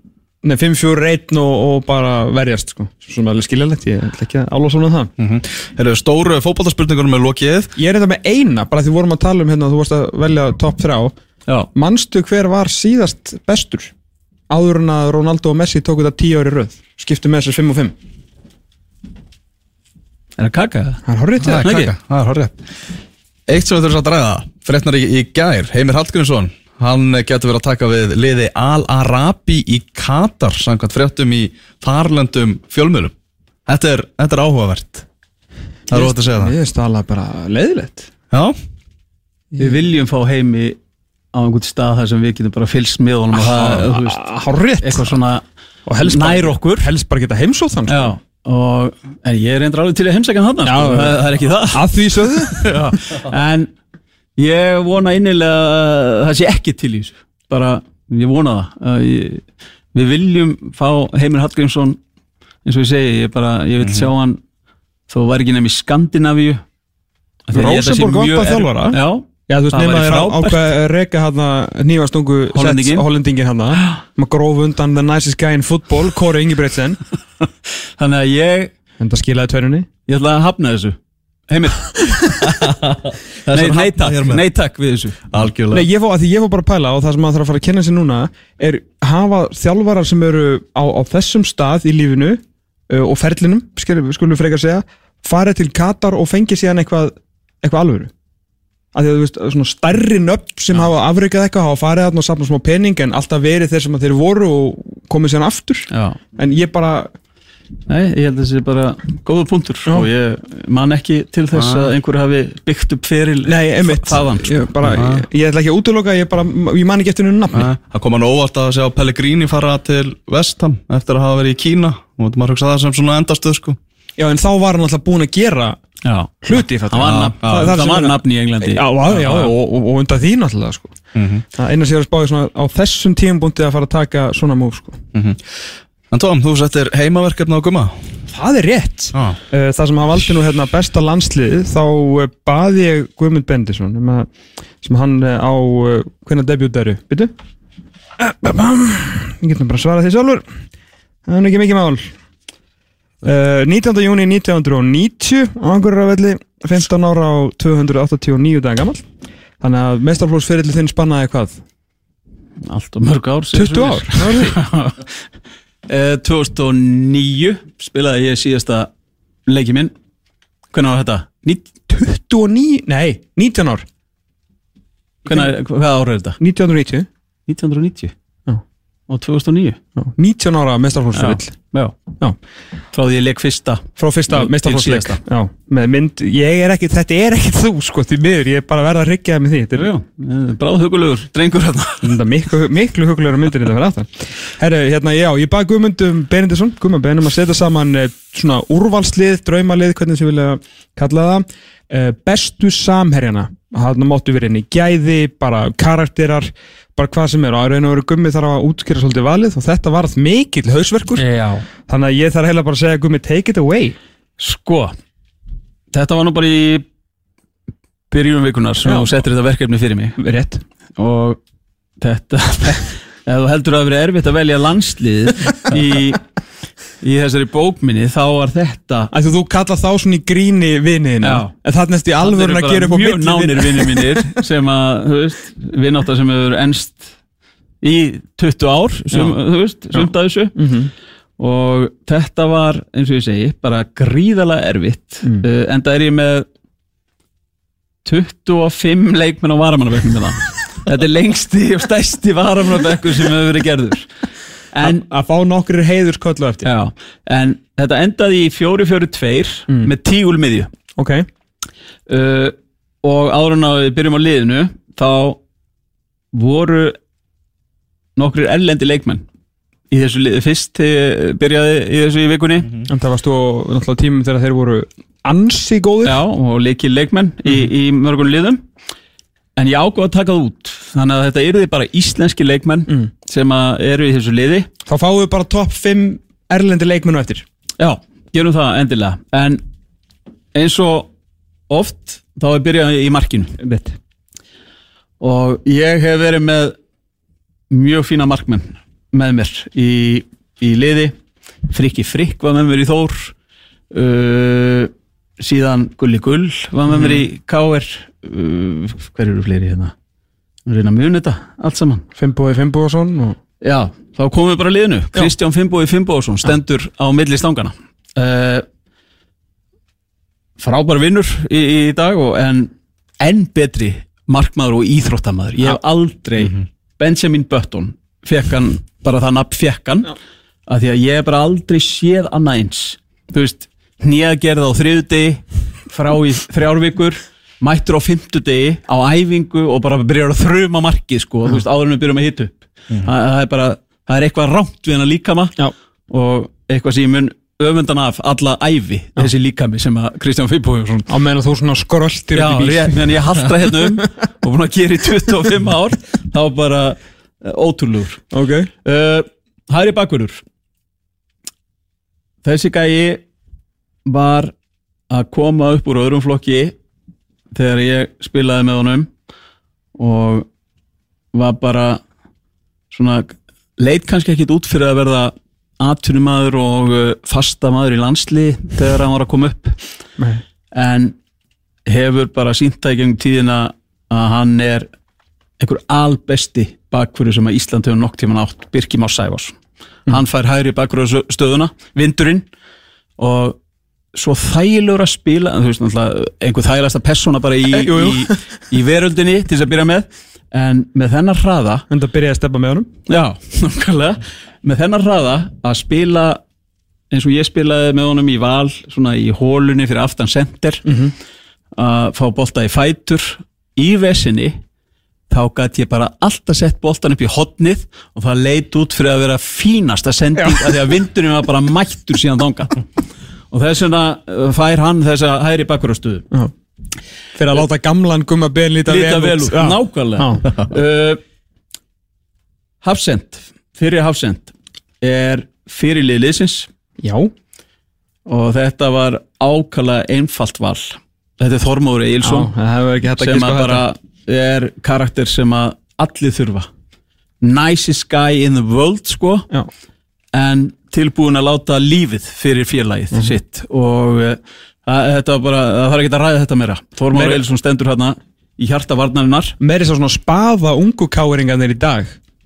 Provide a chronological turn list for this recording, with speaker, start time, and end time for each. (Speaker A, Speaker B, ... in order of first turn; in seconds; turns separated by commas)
Speaker A: 0.4-5.1, Speaker B: 5.2-7.7, Speaker A: 7.8-11.1, Speaker A: 11.7-13.9, Speaker A: 14.5-17.9, Speaker C: 20.4-21.0, Speaker A: 21.1-21.7, Speaker B: 21.4-22.6, Speaker C: 21.6-21.9, Speaker B: 23.5-33.1, Speaker B: 33.7-35.1, Speaker B: 35.9-36.5, Speaker A: 35.9-38.1, Speaker B: 38.3-38.6, Speaker A: 39.5-39.8, Speaker C: 39.6-40.8, Speaker C: 41.3-44.3, Speaker A: 43.3-45.2, Speaker C: 44.8-45.4, Speaker A: 45.9-48.2, Speaker C: 46.0-46.9, Speaker C: 47.9-53.7, Speaker A: 50.6-52.7, Speaker C: 54.4-62.0, Speaker C: 62.6-64.4, Speaker B: 63.8-64.1, Speaker C: 65.1-66.6, Speaker C: 67.5-70.7, Speaker A: 67.5-77.0, Speaker C: 72.5-73.0, Speaker C: 78.0-78.7, Speaker A: 79.0-79.9, Speaker C: 80.1-81.0, Speaker C: 81.5-82.0, Speaker B: 82.4-84.5, Speaker C: 83.5-85.2, Speaker B: 85.3-85.9, Speaker A: 85.7-98.1, Speaker A: 98.9-107.1, Speaker C: 105.9-106.2, Speaker C: 107.9-114.6, Speaker B: 111.5-111.9, Speaker A: 113.5-117.7, Speaker B: 114.8-115.3, Speaker B: 117.5-123.8, Speaker A: 124.2-125.8, Speaker C: 126.0-129.5, Speaker A: 126.4-130.9, Speaker B: 127.1-127.7, Speaker B: 131.2-131.4, Speaker A: 131.5-135.0, Speaker B: 135.1-135.4, Speaker B: 136.1-138.1, Speaker A: 138.3-144.3, Speaker A: 144.8-147.3, Speaker A: 148.2-150.4, Speaker A: 151.3-152.1, Speaker A: 153.2-159.1, Speaker A: 159.6-161.6, Speaker C: 162.6-165.1, Speaker A: 163.5-164.6, Speaker C: 165.9-168.9, Speaker C: 169.5-169.9, Speaker C: 170.7-171.7, Speaker A: 171.9-173.9, Speaker C: 175.2-176.4, Speaker A: 175.3-175.5, Speaker A: 176.4-177.1, Speaker C: 177.5-178.2, Speaker C: 179.1-179.8, Speaker A: 180.0-181.6, Speaker C: 181.1-182.0, Speaker C: 182.9-185.2, Speaker A: 184.0-189.9, Speaker C: 189.7-192.2, Speaker A: 192.0-211.2, Speaker C: 211.2-211.7, Speaker A: 211.9-214.0, Speaker C: 214.4-214.9, Speaker C: 215.9-216.9, Speaker C: 218.1-220.2, Speaker A: 218.8-219.1, Speaker A: 220.2-220.6, Speaker C: 221.0-221.4, Speaker C: 222.0-226.2, Speaker C: 227.0-229.1, Speaker A: 229.1-234.4, Speaker C: 231.2-231.5, Speaker C: 232.2-237.1, Speaker C: 237.8-240.6, Speaker A: 239.1-239.4, Speaker A: 239.9-240.9, Speaker C: 241.4-246.5, Speaker C: 248.1-254.1, Speaker C: 254.7-255.0, Speaker A: 254.8-256.7, Speaker C: 256.6-260.7, Speaker A: 261.0-261.3, Speaker C: 262.1-265.4, Speaker C: 266.3-267.0, Speaker C: 268.2-269.2, Speaker C: 269.9-272.7, Speaker A: 272.9-276.2, Speaker C: 276.0-278.6, Speaker C: 279.6-284.7, Speaker A: 284.9-287.5, Speaker C: 287.8-289.6, Speaker C: 290.5-291.1, Speaker C: 291.7-293.6, Speaker A: 293.6-294.0, Speaker C: 295.2-296.8, Speaker C: 297.7-301.2, Speaker C: 301.7-303.4, Speaker C: 303.9-309.9, Speaker A: 306.9-307.2, Speaker C: 310.7-312.1, Speaker A: 312.2-313.4, Speaker C: 313.6-318.7, Speaker C: 320.6-330.1, Speaker C: 330.7-345.6, Speaker C: 346.1-351.1, Speaker A: 351.1-353.2, Speaker C: 352.3-358.2, Speaker A: 358.3-358.7, Speaker C: 358.8-360.4, Speaker C: 362.4-363.2, Speaker C: 364.1-364.5, Speaker C: 365.1-366.8, Speaker C: 367.5-369.1, Speaker C: 369.9-370.5, Speaker C: 371.3-372.0, Speaker C: 372.9-379.8, Speaker C: 380.7-381.2, Speaker C: 381.9-384.9, Speaker C: 385.6-392.5, Speaker C: 393.2-393.6, Speaker C: 394.1-401.9, Speaker A: 397.7-398.3, Speaker A: 401.9-402.9, Speaker C: 403.1-406.4, Speaker C: 407.1-410.9, Speaker A: 410.9-411.1, Speaker C: 411.8-414.6, Speaker C: 415.3-422.8, Speaker A: 420.4-420.8, Speaker C: 423.5-426.3, Speaker A: 427.4-430.5, Speaker C: 428.9-431.2, Speaker C: 432.8-436.7, Speaker A: 437.0-437.3, Speaker C: 438.3-442.5, Speaker A: 442.2-443.9, Speaker C: 443.2-446.7, Speaker C: 447.4-449.5, Speaker C: 450.3-459.6, Speaker A: 453.1-453.4, Speaker A: 457.1-457.4, Speaker A: 459.6-462.2